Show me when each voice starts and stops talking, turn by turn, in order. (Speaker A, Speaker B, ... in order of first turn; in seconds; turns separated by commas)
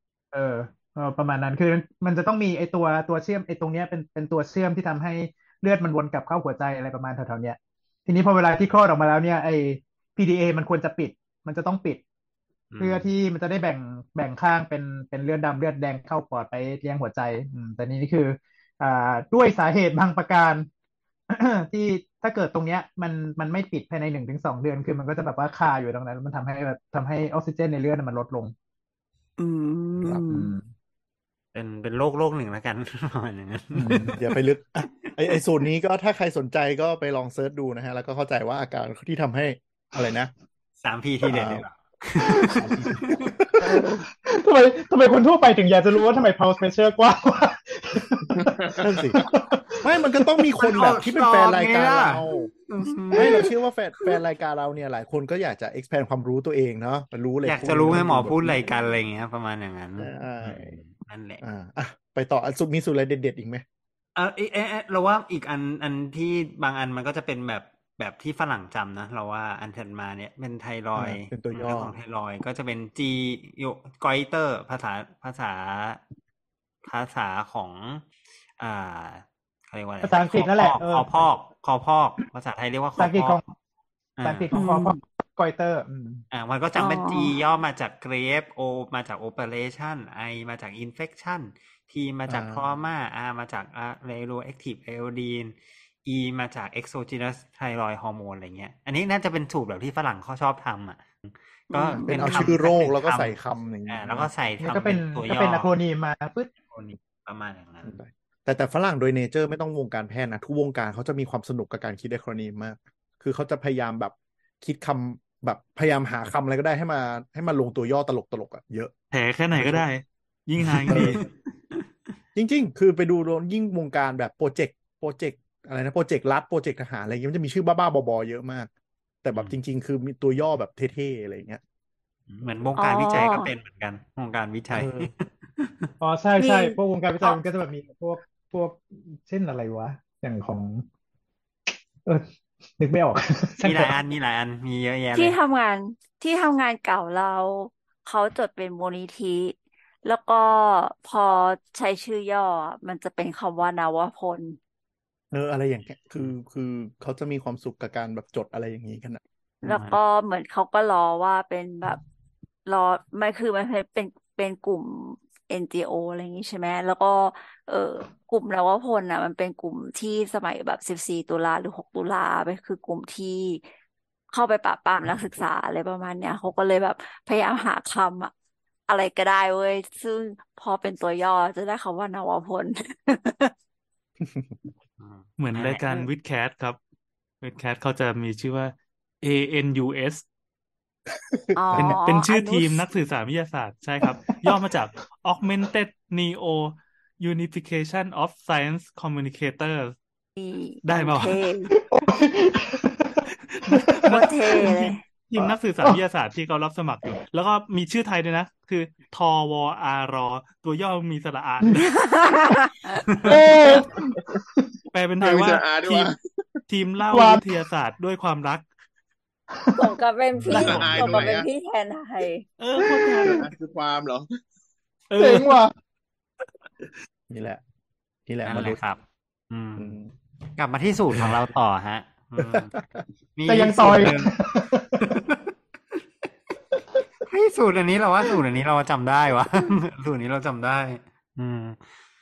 Speaker A: 0.3-12.0, Speaker B: 12.7-13.1, Speaker A: 12.8-20.7, Speaker A: 21.3-28.5, Speaker C: 29.4-30.5, Speaker A: 30.3-30.7, Speaker B: 31.5-34.2, Speaker A: 33.7-34.1, Speaker D: 34.1-40.3, Speaker B: 40.8-43.3, Speaker D: 41.2-41.6, Speaker D: 42.4-44.0, Speaker A: 43.6-48.6, Speaker E: 48.4-48.9, Speaker D: 48.8-49.2, Speaker A: 49.1-49.8, Speaker D: 49.8-52.5, Speaker B: 50.6-53.4, Speaker D: 53.1-58.7, Speaker B: 57.4-61.4, Speaker D: 60.0-60.8, Speaker D: 61.4-63.6, Speaker B: 64.2-76.0, Speaker D: 71.0-71.9, Speaker B: 76.8-78.0, Speaker B: 78.6-83.4, Speaker A: 80.0-81.1, Speaker A: 83.0-83.5, Speaker B: 84.2-84.5, Speaker A: 84.2-86.2, Speaker C: 84.5-85.0, Speaker B: 86.3-103.3, Speaker C: 86.8-87.3, Speaker D: 92.3-92.6, Speaker C: 101.7-102.5, Speaker D: 102.0-104.3, Speaker B: 103.9-105.7, Speaker A: 104.6-106.5, Speaker B: 106.7-108.0, Speaker D: 107.8-118.9, Speaker F: 119.1-121.2, Speaker D: 119.5-119.8, Speaker D: 120.8-121.2, Speaker B: 120.9-121.8, Speaker D: 122.3-128.7, Speaker D: 129.2-131.6, Speaker B: 132.3-135.9, Speaker C: 132.8-133.5, Speaker D: 134.7-135.1, Speaker A: 136.0-140.8, Speaker C: 136.4-137.4, Speaker A: 142.8-143.9, Speaker B: 143.6-145.4, Speaker C: 145.1-154.6, Speaker D: 155.3-159.2, Speaker C: 159.6-162.0, Speaker B: 159.6-160.0, Speaker C: 162.7-173.6, Speaker C: 174.3-178.3, Speaker C: 178.9-183.5, Speaker D: 184.2-184.5, Speaker B: 185.0-186.1, Speaker F: 185.4-186.8, Speaker F: 187.4-190.2, Speaker D: 191.3-191.9, Speaker C: 191.5-192.8, Speaker F: 191.7-199.9, Speaker C: 200.4-201.7, Speaker F: 200.8-201.4, Speaker A: 201.7-204.6, Speaker F: 203.5-211.9, Speaker C: 204.1-205.0, Speaker A: 205.4-206.0, Speaker C: 211.8-213.8, Speaker A: 213.2-214.7, Speaker F: 214.9-216.1, Speaker E: 215.2-216.2, Speaker F: 216.7-218.7, Speaker A: 217.1-217.5, Speaker A: 219.6-219.9, Speaker C: 219.7-222.4, Speaker F: 220.5-221.3, Speaker E: 220.5-221.5, Speaker F: 222.6-223.4, Speaker A: 222.8-223.3, Speaker E: 223.2-224.3, Speaker F: 225.1-225.6, Speaker A: 225.2-225.7, Speaker D: 227.3-227.6, Speaker D: 228.3-228.8, Speaker B: 228.4-229.9, Speaker D: 229.8-230.1, Speaker B: 230.6-232.7, Speaker D: 232.4-233.0, Speaker B: 233.3-234.3, Speaker A: 233.4-235.0, Speaker B: 235.1-235.3, Speaker B: 237.3-241.8